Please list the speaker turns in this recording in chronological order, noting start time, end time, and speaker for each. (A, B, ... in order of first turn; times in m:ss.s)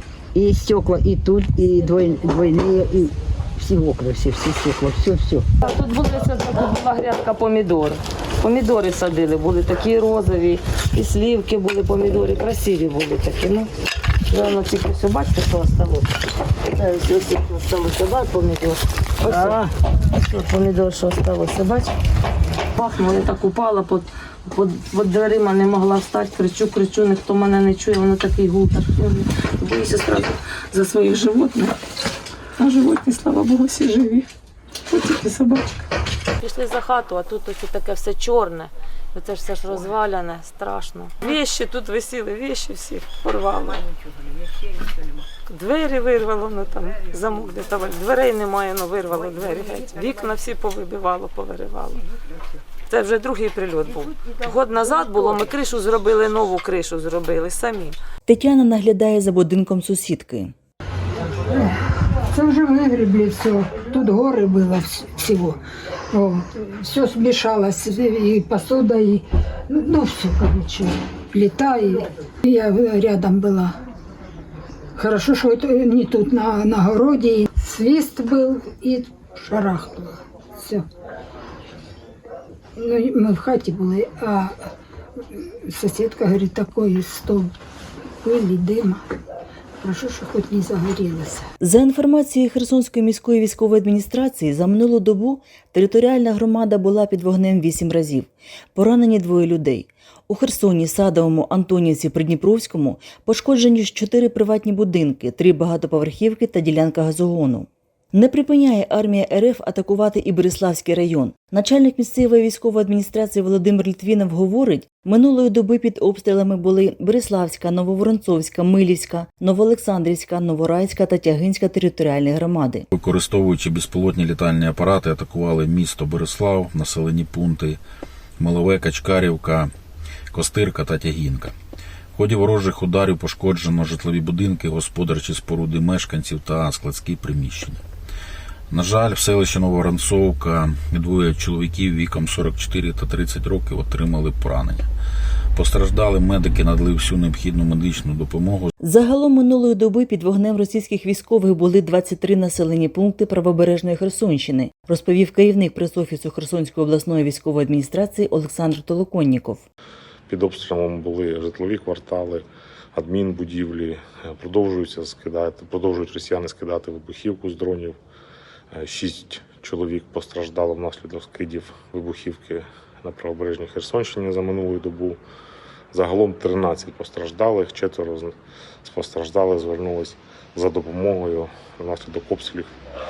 0:00.3-0:05.4 A
0:05.6-0:13.7 B
0:14.3-0:16.1 B
0:16.7-0:19.6 B
0:19.2-0:19.7 A
0:20.1-0:21.9 B
0:22.8-0:31.8 B
0:32.6-0:34.3 B
0:34.9-0:35.8 B
0:36.4-0:43.8 B
0:43.8-0:45.2 A
0:45.4-0:52.0 B
0:52.9-0:58.0 B
0:58.2-1:00.5 C
1:01.5-1:01.8 D
1:02.3-1:05.6 D
1:06.1-1:13.8 D
1:15.0-1:20.8 D
1:22.8-1:24.7 D
1:25.3-1:27.5 D
1:28.2-1:29.0 D
1:29.8-1:31.5 D
1:31.6-2:02.9 C
2:02.9-2:07.8 E
2:08.4-2:09.7 E
2:10.3-2:11.5 E
2:12.1-2:17.8 E
2:18.7-2:24.8 E
2:25.5-2:28.7 E
2:28.8-2:39.6 C
2:40.3-2:48.0 F
2:48.7-2:55.2 F
2:55.9-3:02.7 F